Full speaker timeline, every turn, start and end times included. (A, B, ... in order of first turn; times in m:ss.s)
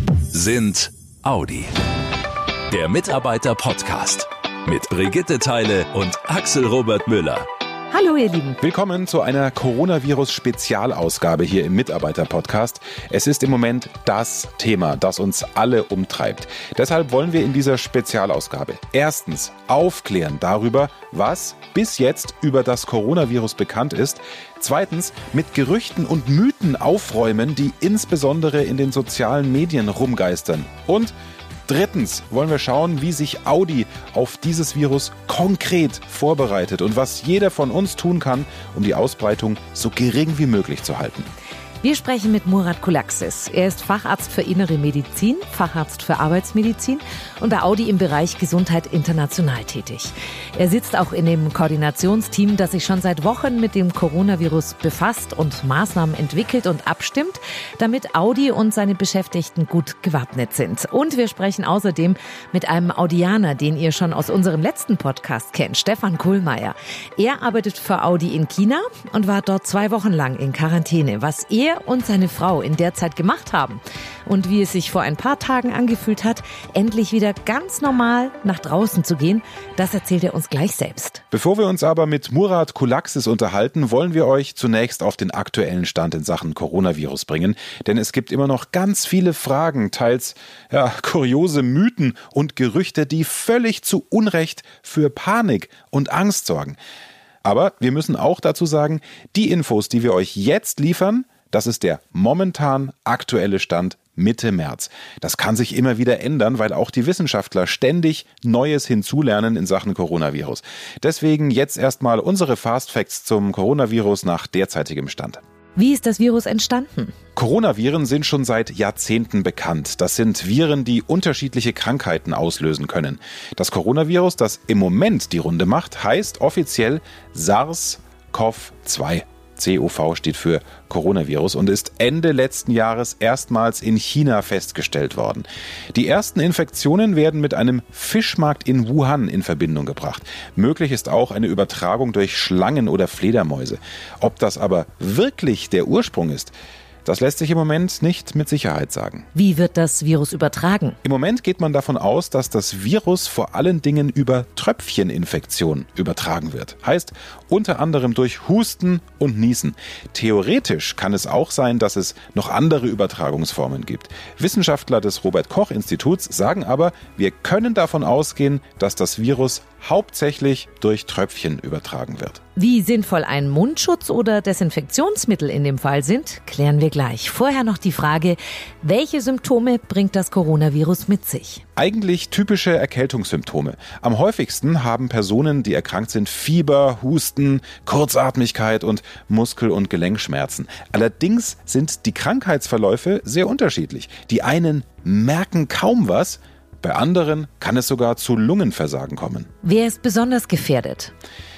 0:00.3-0:01.7 A
0:02.7-0:07.5 A
0:07.9-0:08.6 B
0:08.6-0:31.1 C
0:31.7-0:41.3 C
0:41.8-1:21.2 B
1:21.3-1:36.8 C
1:37.4-1:55.4 C
1:55.8-1:57.1 B
1:57.4-2:26.5 C
2:27.0-2:29.3 C
2:29.4-2:31.0 B
2:31.0-2:52.4 C
2:52.6-3:01.6 B
3:01.8-3:19.5 C
3:19.6-3:21.1 B